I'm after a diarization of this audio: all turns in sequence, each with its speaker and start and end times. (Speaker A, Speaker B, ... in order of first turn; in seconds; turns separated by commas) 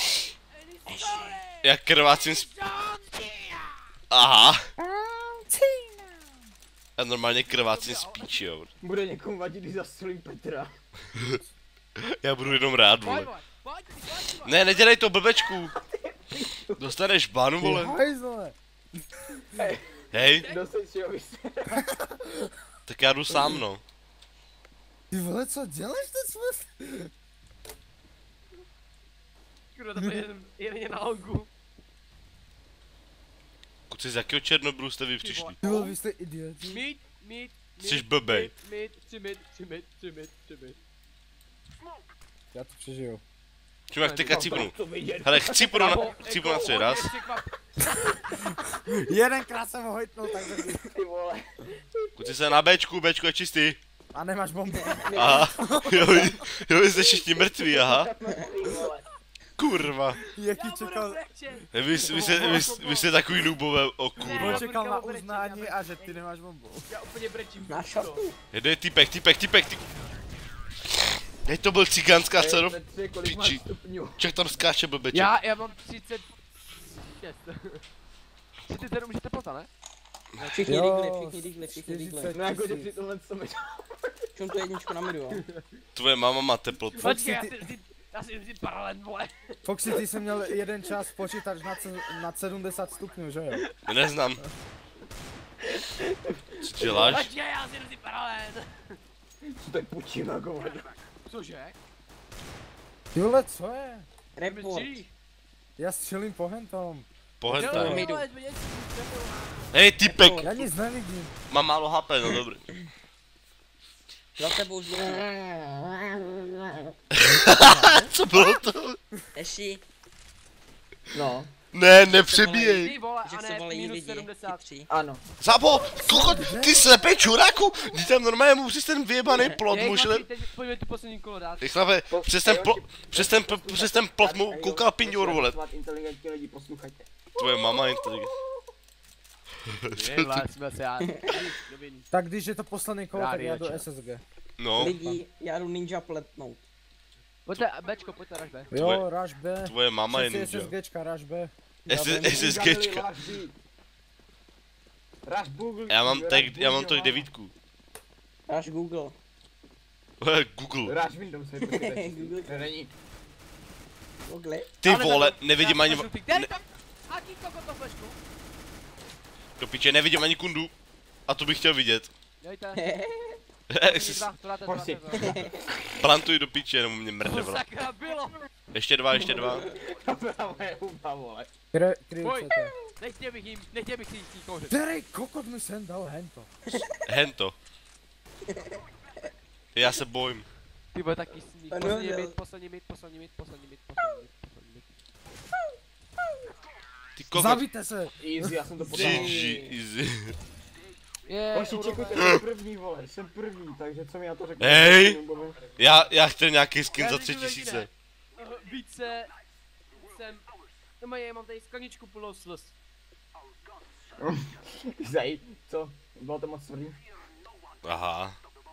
Speaker A: 0.5-3.8, Speaker B: 0.8-1.4, Speaker C: 1.6-2.5, Speaker C: 4.1-4.6, Speaker D: 4.8-6.4, Speaker C: 7.0-8.7, Speaker A: 7.5-8.5, Speaker E: 8.8-10.7, Speaker C: 12.0-13.3, Speaker A: 13.0-14.6, Speaker C: 14.4-15.7, Speaker E: 15.6-16.9, Speaker C: 16.8-17.9, Speaker D: 17.6-18.6, Speaker D: 19.2-19.5, Speaker E: 19.5-19.9, Speaker C: 20.1-20.5, Speaker A: 20.2-20.6, Speaker E: 20.4-22.0, Speaker C: 22.9-23.8, Speaker D: 25.1-27.1, Speaker A: 29.7-31.5, Speaker C: 33.9-35.6, Speaker A: 35.2-35.9, Speaker D: 35.6-36.8, Speaker A: 36.6-40.8, Speaker C: 37.8-38.5, Speaker D: 42.5-43.2, Speaker C: 43.9-47.1, Speaker A: 44.0-44.6, Speaker E: 44.3-46.6, Speaker A: 45.8-48.2, Speaker D: 48.5-50.9, Speaker E: 50.9-51.4, Speaker C: 52.2-53.8, Speaker D: 54.1-56.3, Speaker B: 55.1-55.5, Speaker C: 55.1-58.1, Speaker E: 57.4-59.0, Speaker B: 58.3-58.5, Speaker C: 59.6-60.2, Speaker A: 60.1-63.4, Speaker D: 60.3-61.2, Speaker C: 61.7-64.6, Speaker A: 64.2-66.2, Speaker D: 64.2-66.9, Speaker A: 66.9-68.2, Speaker B: 67.7-68.3, Speaker C: 68.5-69.8, Speaker C: 71.4-72.8, Speaker E: 72.4-74.2, Speaker C: 73.3-73.6, Speaker C: 74.2-75.3, Speaker A: 75.1-76.3, Speaker A: 77.0-77.8, Speaker A: 78.7-79.7, Speaker A: 80.3-80.8, Speaker B: 80.5-82.3, Speaker D: 80.7-82.9, Speaker E: 82.3-84.6, Speaker B: 84.3-85.4, Speaker C: 85.9-87.1, Speaker A: 87.0-89.4, Speaker D: 87.0-87.7, Speaker D: 89.6-93.6, Speaker C: 93.8-94.4, Speaker E: 95.7-97.1, Speaker C: 96.6-97.3, Speaker A: 96.8-99.0, Speaker E: 99.4-100.9, Speaker A: 101.3-101.8, Speaker D: 103.1-104.1, Speaker B: 104.3-105.0, Speaker A: 104.4-105.1, Speaker D: 105.8-108.1, Speaker C: 107.4-108.1, Speaker A: 107.5-109.7, Speaker B: 108.0-108.2, Speaker C: 109.7-110.5, Speaker B: 110.0-110.6, Speaker D: 110.4-111.3, Speaker C: 111.5-112.6, Speaker B: 114.4-116.1, Speaker C: 117.1-119.0, Speaker D: 117.5-118.1, Speaker B: 119.3-119.8, Speaker E: 121.1-121.5, Speaker C: 121.7-122.9, Speaker B: 121.9-124.9, Speaker A: 122.8-124.6, Speaker E: 124.9-125.2, Speaker C: 125.4-130.2, Speaker D: 126.0-126.8, Speaker A: 129.7-131.6, Speaker C: 131.6-135.6, Speaker E: 132.1-137.1, Speaker C: 137.3-138.3, Speaker C: 139.8-140.3, Speaker A: 139.9-142.1, Speaker B: 141.0-141.3, Speaker D: 142.1-144.2, Speaker A: 143.1-143.8, Speaker C: 144.6-144.9, Speaker B: 144.8-146.6, Speaker D: 144.9-145.1, Speaker A: 147.4-148.7, Speaker D: 148.7-152.6, Speaker C: 148.7-149.0, Speaker C: 149.6-150.7, Speaker C: 151.9-153.1, Speaker E: 152.1-153.5, Speaker E: 155.2-157.3, Speaker C: 155.9-157.5, Speaker B: 158.5-159.2, Speaker C: 160.2-160.9, Speaker E: 160.8-162.9, Speaker B: 161.6-162.7, Speaker B: 164.3-164.8, Speaker C: 164.8-166.5, Speaker A: 164.8-168.2, Speaker C: 169.6-170.7, Speaker C: 171.3-172.1, Speaker A: 172.4-172.8, Speaker B: 172.8-173.4, Speaker C: 173.7-174.2, Speaker A: 173.8-175.4, Speaker E: 174.6-175.8, Speaker B: 175.2-175.4, Speaker C: 176.0-177.6, Speaker A: 177.2-178.4, Speaker C: 178.7-179.7, Speaker B: 179.2-179.4, Speaker E: 179.5-181.5, Speaker D: 181.7-182.8, Speaker A: 182.2-184.8, Speaker D: 184.7-186.5, Speaker B: 186.7-187.0, Speaker C: 187.0-187.6, Speaker B: 188.5-188.8, Speaker C: 189.7-190.5, Speaker A: 190.9-194.8, Speaker B: 191.7-192.4, Speaker C: 197.2-197.7, Speaker D: 197.3-198.5, Speaker E: 198.2-199.5, Speaker C: 198.8-200.3, Speaker B: 198.9-199.8, Speaker A: 201.2-202.3, Speaker E: 201.5-205.6, Speaker C: 204.6-205.2, Speaker C: 205.8-207.9, Speaker A: 206.9-209.3, Speaker A: 209.9-210.5, Speaker A: 211.0-212.7, Speaker E: 214.2-217.0, Speaker C: 217.8-218.4